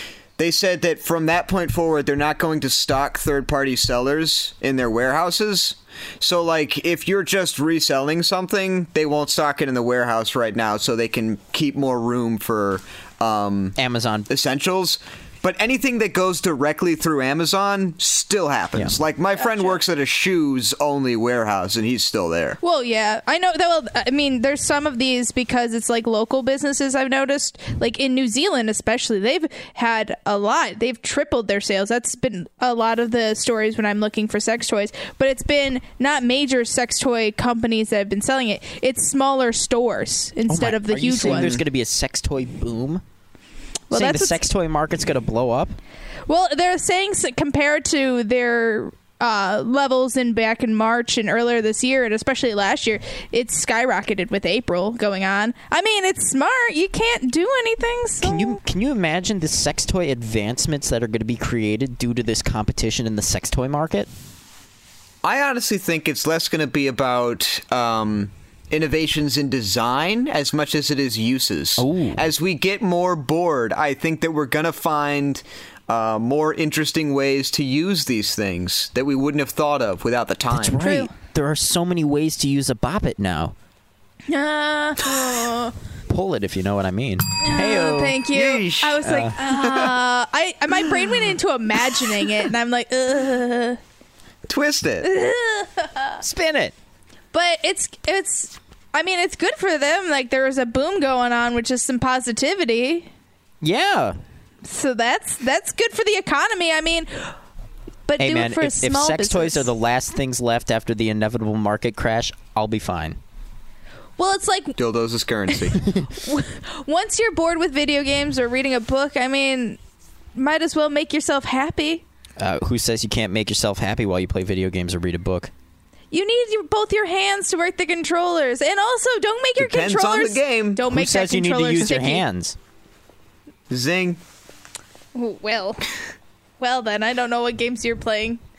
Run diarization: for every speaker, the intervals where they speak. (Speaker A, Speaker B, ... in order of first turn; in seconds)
Speaker A: 0.4-13.7, 14.3-22.6, 65.2-80.8, 88.3-90.0, 94.5-95.1, 114.8-115.9, 129.6-130.8, 133.7-134.2
Speaker B: 13.8-14.3, 40.5-43.0, 43.9-45.8, 58.2-64.1, 71.8-72.2, 80.5-83.5, 86.1-88.2, 89.0-89.3, 96.2-96.7, 103.6-104.2, 108.2-113.2, 122.4-125.5, 130.9-132.6
Speaker C: 19.4-19.8, 22.6-41.6, 43.9-44.4, 46.3-58.6, 80.8-81.1, 84.3-85.7, 87.4-93.8, 95.0-96.2, 97.3-103.1, 104.6-107.3, 108.1-109.7, 114.2-114.8, 116.2-119.8, 120.3-122.0, 126.1-132.2, 135.1-135.8, 136.6-138.4